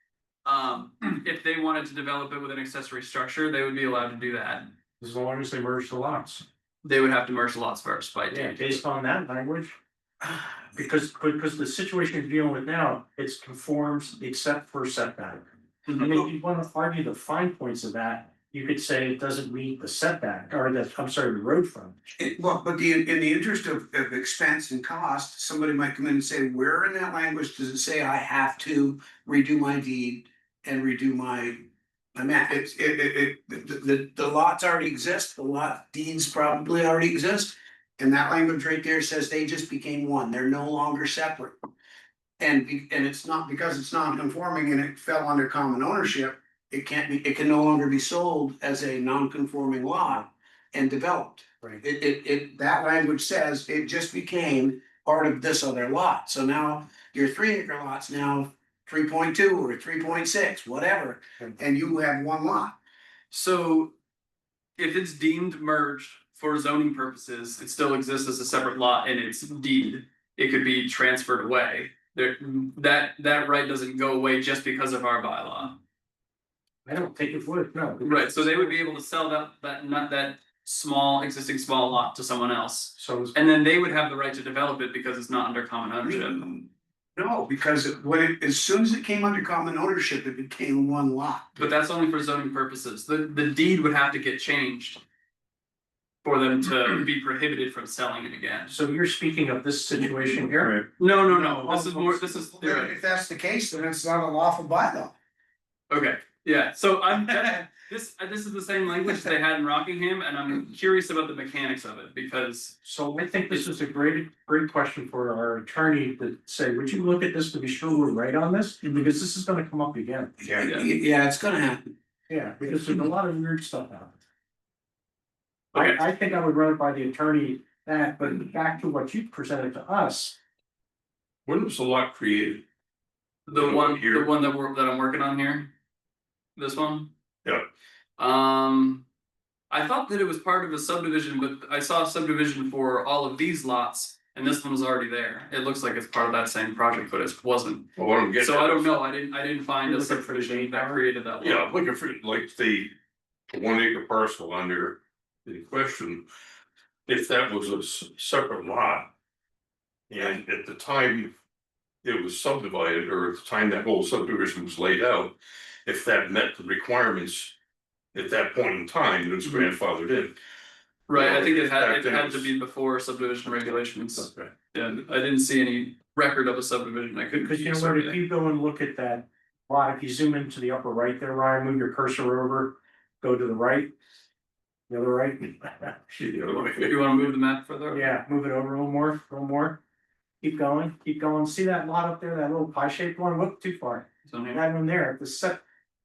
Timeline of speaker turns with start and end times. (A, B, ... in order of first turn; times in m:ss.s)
0:00.4-0:04.7 A
0:05.0-0:06.4 B
0:06.8-0:08.8 A
0:08.3-0:22.0 B
0:15.9-0:16.2 A
0:22.2-0:41.6 C
0:42.4-1:02.8 C
1:03.3-1:03.9 A
1:04.8-1:15.8 A
1:16.8-1:18.7 B
1:18.0-1:26.4 A
1:23.0-1:23.4 B
1:26.0-1:31.7 C
1:31.6-1:35.0 A
1:36.2-1:38.7 A
1:38.7-1:40.9 B
1:41.0-1:42.9 A
1:41.3-1:45.2 C
1:45.9-1:53.6 A
1:52.8-2:00.4 B
2:00.4-2:01.9 C
2:00.6-2:00.9 A
2:02.3-2:04.2 B
2:05.7-2:10.4 B
2:05.7-2:06.0 A
2:11.5-2:12.6 D
2:13.5-2:15.7 A
2:13.5-2:14.3 D
2:16.6-2:17.1 A
2:18.2-2:19.0 A
2:19.7-2:31.7 A
2:28.0-2:28.9 D
2:29.8-2:31.1 B
2:31.4-2:33.0 D
2:33.5-2:36.3 D
2:37.1-2:39.1 D
2:40.1-2:41.3 D
2:42.0-2:45.3 D
2:45.8-2:47.6 D
2:48.1-2:50.4 D
2:51.1-2:52.5 D
2:51.1-2:58.2 A
2:57.3-3:03.9 B
3:04.9-3:06.2 B
3:06.2-3:07.0 D
3:06.7-3:08.1 A
3:07.9-3:09.8 B
3:10.4-3:15.6 B
3:14.3-3:14.6 A